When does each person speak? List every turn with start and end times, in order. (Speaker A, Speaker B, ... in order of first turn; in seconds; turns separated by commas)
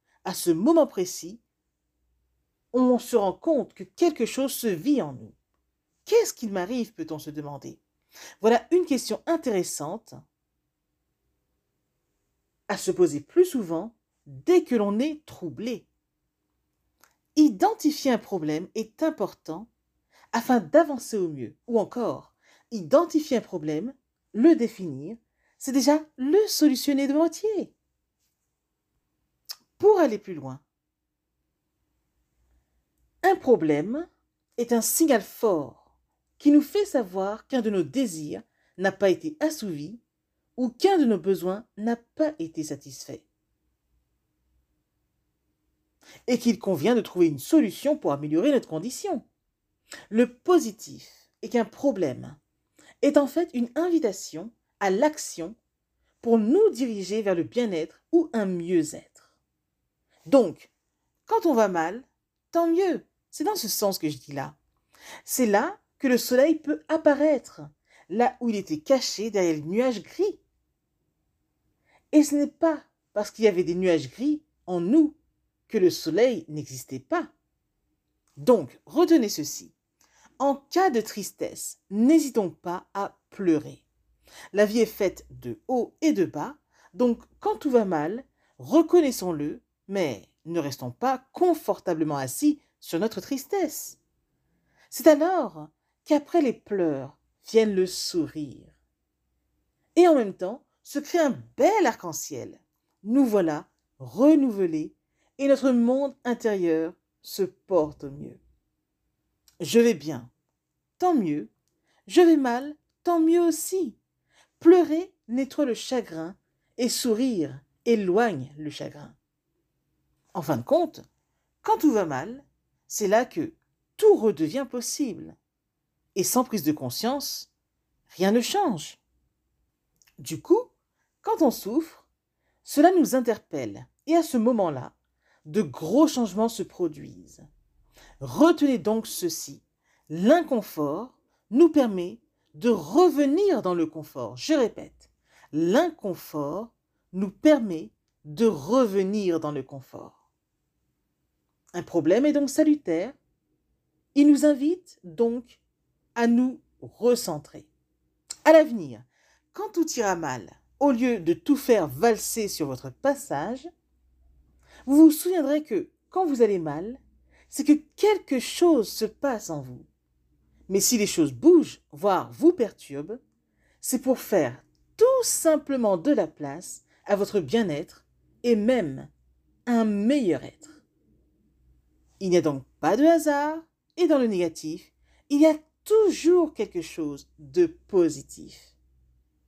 Speaker A: 0.2-1.4, Speaker A: 2.7-5.4, Speaker A: 6.0-7.8, Speaker A: 8.4-10.2, Speaker A: 12.7-15.9, Speaker A: 17.4-19.7, Speaker A: 20.3-27.7, Speaker A: 29.8-30.6, Speaker A: 33.2-35.9, Speaker A: 36.4-40.0, Speaker A: 40.6-43.3, Speaker A: 46.3-49.2, Speaker A: 50.1-52.4, Speaker A: 53.0-55.6, Speaker A: 56.2-59.3, Speaker A: 60.3-60.7, Speaker A: 61.3-64.6, Speaker A: 65.2-70.4, Speaker A: 72.1-77.3, Speaker A: 78.4-79.7, Speaker A: 80.4-83.9, Speaker A: 84.5-94.0, Speaker A: 94.9-98.7, Speaker A: 100.0-108.4, Speaker A: 109.6-110.3, Speaker A: 111.0-111.5, Speaker A: 112.1-114.0, Speaker A: 114.6-119.2, Speaker A: 120.3-121.0, Speaker A: 121.6-125.4, Speaker A: 126.2-127.5, Speaker A: 128.1-129.0, Speaker A: 130.2-132.1, Speaker A: 132.6-134.9, Speaker A: 135.4-137.5, Speaker A: 138.2-150.2, Speaker A: 151.7-153.2, Speaker A: 154.2-155.6, Speaker A: 156.2-157.7, Speaker A: 158.4-163.7, Speaker A: 164.9-169.9, Speaker A: 170.7-173.2, Speaker A: 173.8-179.1, Speaker A: 179.7-180.8, Speaker A: 182.2-188.8